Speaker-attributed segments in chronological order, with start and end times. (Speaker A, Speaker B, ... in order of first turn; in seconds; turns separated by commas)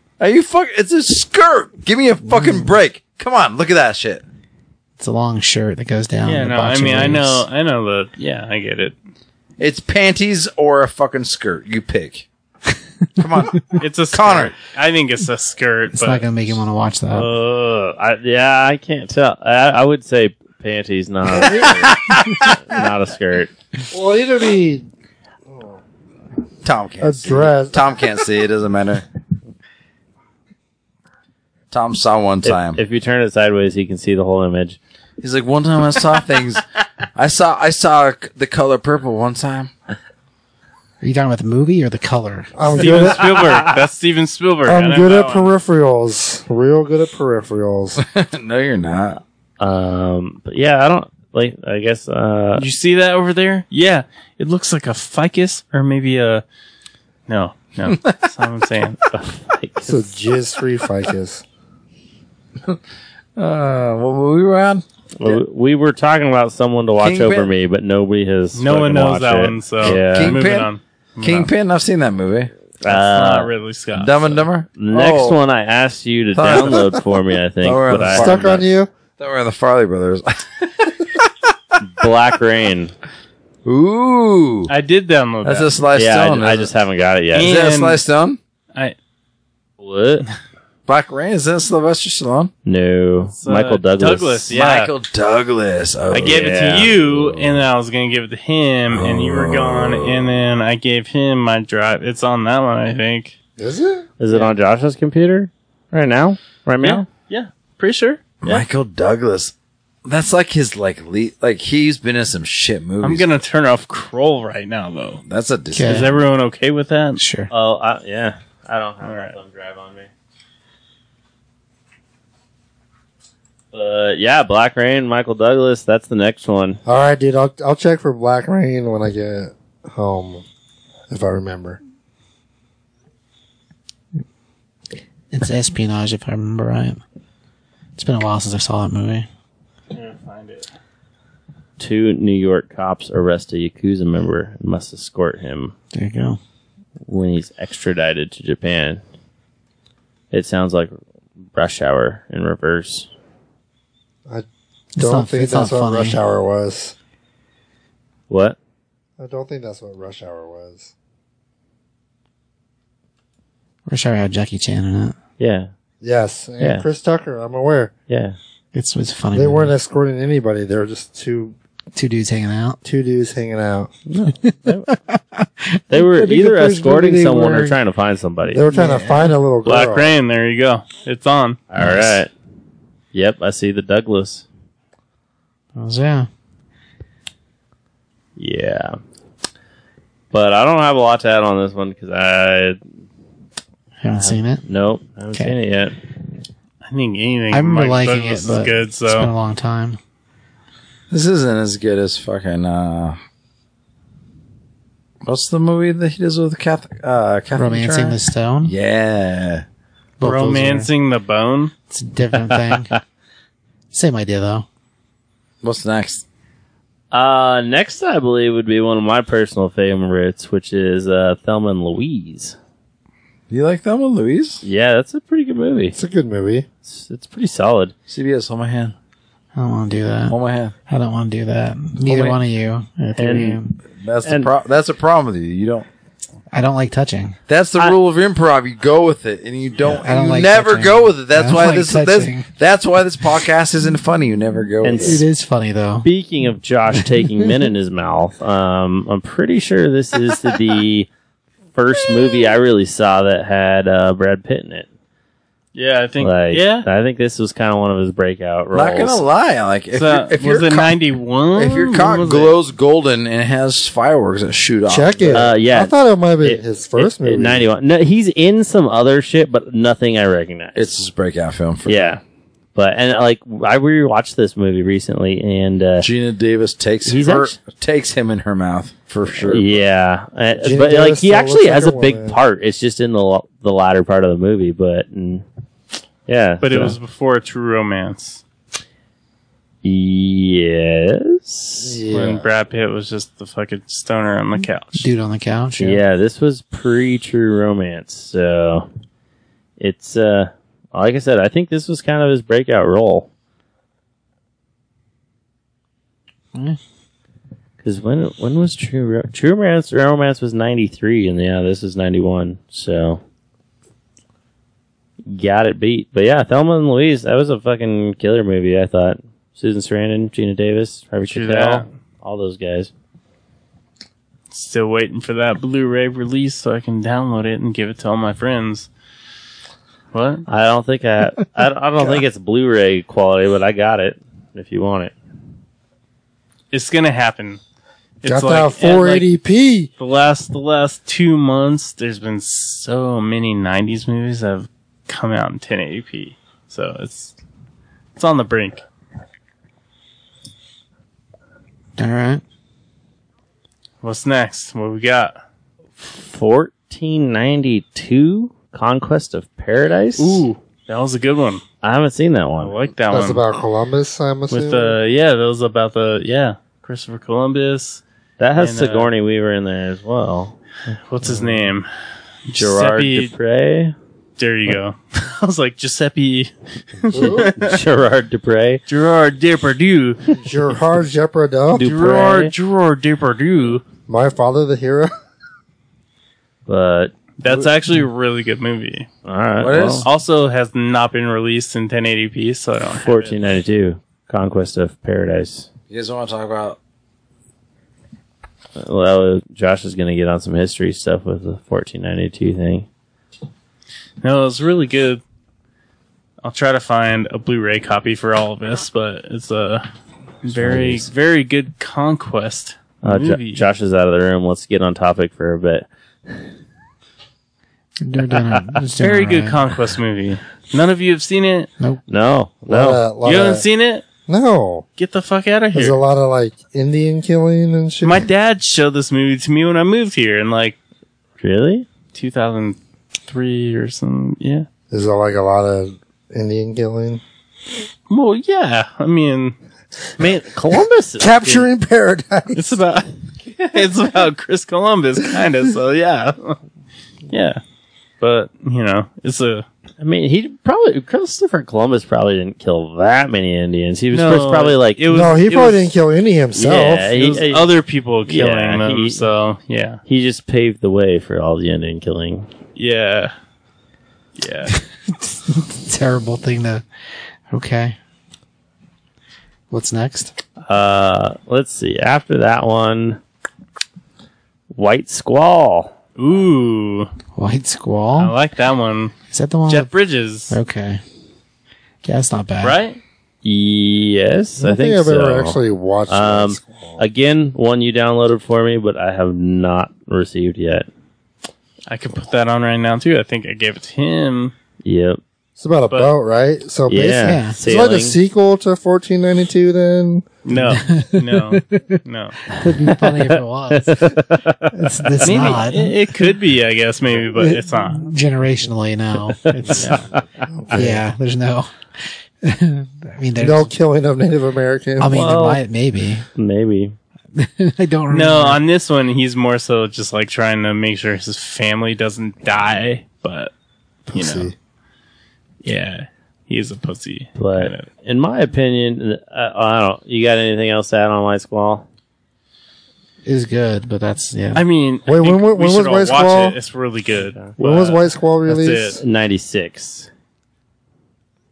Speaker A: 0.2-4.2, Speaker B: 2.3-2.7, Speaker B: 5.0-7.5, Speaker C: 6.2-8.9, Speaker A: 9.6-12.3, Speaker A: 13.2-14.5, Speaker C: 13.8-16.5, Speaker B: 15.9-17.3, Speaker D: 17.1-23.5, Speaker E: 21.4-21.7, Speaker A: 21.6-22.6, Speaker E: 23.9-24.9, Speaker E: 25.5-25.8, Speaker A: 26.6-29.0, Speaker E: 27.0-28.0, Speaker A: 31.7-32.8, Speaker D: 32.4-34.8, Speaker A: 35.2-36.6, Speaker A: 37.1-39.7, Speaker B: 41.0-42.5, Speaker E: 42.6-43.6, Speaker C: 42.8-45.5, Speaker D: 42.8-43.6, Speaker E: 44.7-48.0, Speaker A: 48.0-49.2, Speaker D: 49.6-52.7, Speaker C: 52.6-56.4, Speaker C: 57.3-59.0, Speaker A: 57.9-58.2, Speaker D: 59.1-60.0, Speaker E: 59.9-61.4, Speaker A: 63.4-65.4, Speaker D: 65.2-70.4, Speaker A: 67.0-67.5, Speaker C: 68.6-71.5, Speaker A: 69.8-72.5, Speaker D: 72.8-73.5, Speaker C: 72.9-74.4, Speaker A: 74.0-75.4, Speaker D: 74.8-78.6, Speaker A: 76.3-77.0, Speaker A: 77.6-78.7, Speaker E: 78.1-78.9, Speaker A: 79.2-81.3, Speaker D: 81.8-82.9, Speaker A: 83.7-84.7, Speaker C: 84.7-85.7, Speaker A: 85.4-86.7, Speaker D: 85.9-87.5, Speaker C: 87.3-88.0, Speaker A: 87.4-88.4, Speaker D: 89.8-90.3, Speaker A: 90.9-92.5, Speaker D: 92.7-94.5, Speaker C: 93.4-94.9, Speaker A: 94.5-96.6, Speaker C: 96.1-103.3, Speaker D: 96.2-97.5, Speaker A: 98.9-100.4, Speaker E: 103.6-104.1, Speaker D: 104.2-107.1, Speaker C: 106.8-108.6, Speaker A: 108.4-109.5, Speaker A: 110.0-113.3, Speaker C: 113.0-115.2, Speaker A: 115.3-116.1, Speaker B: 115.7-116.1, Speaker C: 115.8-117.2, Speaker B: 117.2-117.5, Speaker D: 117.5-120.1, Speaker C: 119.0-119.4, Speaker D: 123.7-126.8, Speaker E: 126.9-130.4, Speaker E: 131.1-131.8, Speaker B: 135.3-137.0, Speaker B: 138.0-139.3, Speaker C: 139.9-140.7, Speaker D: 141.8-145.7, Speaker B: 145.9-146.4, Speaker D: 147.1-149.0, Speaker D: 150.3-151.0, Speaker D: 151.5-153.1, Speaker B: 154.9-156.2, Speaker E: 155.0-156.9, Speaker D: 158.3-158.6, Speaker E: 159.2-160.9, Speaker B: 163.9-165.2, Speaker D: 165.4-165.7, Speaker E: 166.0-167.9, Speaker D: 166.6-166.9, Speaker D: 168.1-168.4, Speaker B: 168.7-169.7, Speaker E: 169.3-171.6, Speaker B: 171.9-172.8, Speaker E: 172.8-173.9, Speaker D: 174.1-174.9, Speaker B: 174.3-175.8, Speaker D: 175.9-178.7, Speaker E: 176.1-177.8, Speaker E: 178.5-180.1, Speaker B: 178.7-179.4, Speaker C: 179.7-181.6, Speaker D: 181.7-182.3, Speaker B: 181.8-182.1, Speaker D: 183.1-184.4, Speaker B: 185.8-186.3, Speaker D: 188.4-189.0, Speaker D: 190.3-192.8, Speaker B: 194.0-194.7, Speaker D: 194.1-196.0, Speaker C: 196.8-199.3, Speaker B: 197.5-200.0, Speaker A: 201.1-203.2, Speaker A: 205.2-209.6, Speaker B: 207.6-208.7, Speaker B: 210.2-210.9, Speaker C: 210.2-211.7, Speaker B: 211.9-212.9, Speaker D: 212.5-213.0, Speaker B: 213.9-214.7, Speaker A: 215.6-216.2, Speaker D: 217.1-222.6, Speaker A: 223.5-224.6, Speaker D: 224.6-226.0, Speaker E: 225.9-226.7, Speaker D: 226.9-227.9, Speaker A: 228.1-228.9, Speaker B: 229.6-233.8, Speaker A: 230.3-230.7, Speaker D: 233.2-233.6, Speaker A: 234.0-235.9, Speaker D: 234.2-234.5, Speaker B: 236.5-237.4, Speaker A: 237.5-245.2, Speaker B: 239.9-242.5, Speaker D: 244.8-245.2, Speaker B: 245.0-246.1, Speaker D: 246.0-251.1, Speaker B: 247.0-247.5, Speaker D: 251.8-254.9, Speaker C: 255.8-256.9, Speaker D: 256.2-259.2, Speaker A: 258.7-260.9, Speaker C: 259.9-262.5, Speaker A: 261.6-265.5, Speaker E: 264.9-267.7, Speaker D: 265.3-270.9, Speaker A: 270.8-272.1, Speaker D: 271.9-272.2, Speaker D: 272.8-276.1, Speaker A: 276.0-279.8, Speaker D: 277.1-277.6, Speaker D: 279.4-285.4, Speaker E: 280.6-282.4, Speaker D: 286.3-286.9, Speaker C: 286.6-288.4, Speaker D: 289.8-292.0, Speaker E: 291.8-292.5, Speaker C: 292.1-295.1, Speaker B: 295.0-296.0, Speaker D: 295.8-298.9, Speaker D: 299.8-303.3, Speaker B: 306.5-306.8, Speaker D: 307.8-313.2, Speaker D: 315.3-322.9, Speaker C: 321.3-321.9, Speaker C: 324.5-328.9, Speaker C: 330.1-330.4, Speaker D: 330.5-335.1, Speaker C: 336.7-337.6, Speaker C: 338.2-339.3, Speaker E: 338.3-339.9, Speaker C: 340.0-347.3, Speaker C: 348.2-348.8, Speaker B: 352.0-352.4, Speaker C: 354.0-355.4, Speaker D: 356.0-360.5, Speaker C: 360.2-361.6, Speaker D: 361.8-362.8, Speaker C: 362.6-363.4, Speaker E: 363.1-365.0, Speaker C: 364.5-368.0, Speaker D: 368.4-370.6, Speaker C: 368.6-369.1, Speaker C: 371.1-371.9, Speaker D: 371.2-371.6, Speaker C: 372.5-373.3, Speaker D: 372.6-374.0, Speaker C: 374.4-377.8, Speaker E: 377.1-377.5, Speaker D: 377.2-378.8, Speaker C: 378.9-380.3, Speaker E: 380.4-381.9, Speaker D: 381.7-382.5, Speaker C: 381.8-383.8, Speaker E: 384.1-385.1, Speaker D: 386.7-387.1, Speaker C: 387.4-389.1, Speaker D: 389.2-390.1, Speaker A: 389.6-390.1, Speaker C: 390.0-393.4, Speaker D: 392.9-395.7, Speaker A: 395.9-396.8, Speaker D: 398.8-402.9, Speaker C: 404.2-405.2, Speaker C: 406.4-409.9, Speaker C: 410.4-413.6, Speaker D: 410.6-411.1, Speaker D: 413.0-415.9, Speaker B: 418.0-419.6, Speaker C: 419.0-421.7, Speaker D: 422.1-423.0, Speaker E: 422.7-423.6, Speaker C: 423.2-424.1, Speaker E: 424.3-424.9, Speaker C: 425.0-426.0, Speaker E: 425.7-428.3, Speaker C: 428.0-430.8, Speaker D: 431.4-431.9, Speaker C: 432.1-434.7, Speaker E: 434.9-437.2, Speaker C: 438.1-439.6, Speaker D: 440.2-441.7, Speaker E: 441.2-442.8, Speaker C: 442.5-446.6, Speaker C: 447.3-447.6, Speaker C: 448.2-449.6, Speaker D: 450.0-455.0, Speaker C: 454.1-455.9, Speaker E: 455.1-457.1, Speaker D: 456.5-457.7, Speaker C: 457.1-460.0, Speaker D: 458.3-459.2, Speaker D: 460.1-462.5, Speaker C: 462.8-463.3, Speaker C: 464.4-464.8, Speaker B: 464.7-466.9, Speaker B: 467.5-468.0, Speaker B: 469.7-470.4, Speaker D: 470.7-473.2, Speaker D: 474.7-475.9, Speaker C: 476.2-477.1, Speaker B: 477.4-478.4, Speaker C: 478.2-479.1, Speaker B: 479.3-479.9, Speaker C: 479.7-480.6, Speaker B: 480.5-481.0, Speaker B: 482.0-482.8, Speaker C: 482.6-483.0, Speaker D: 483.4-490.9, Speaker E: 484.6-487.0, Speaker C: 491.9-494.5, Speaker D: 494.8-495.2, Speaker E: 495.6-500.2, Speaker D: 496.9-498.2, Speaker B: 497.2-497.6, Speaker C: 500.4-502.4, Speaker B: 500.5-506.0, Speaker D: 502.7-505.1, Speaker C: 505.2-508.1, Speaker B: 507.4-510.1, Speaker D: 509.4-511.0, Speaker E: 510.5-510.8, Speaker B: 510.7-513.7, Speaker E: 513.4-515.2, Speaker B: 515.0-516.3, Speaker D: 515.1-515.6, Speaker D: 516.4-517.0, Speaker B: 517.3-518.6, Speaker C: 518.1-523.5, Speaker E: 524.1-524.5, Speaker C: 524.1-524.5, Speaker C: 525.6-527.9, Speaker D: 527.4-531.9, Speaker B: 533.2-534.6, Speaker C: 534.5-539.0, Speaker E: 535.1-536.6, Speaker E: 537.6-539.0, Speaker D: 539.0-540.1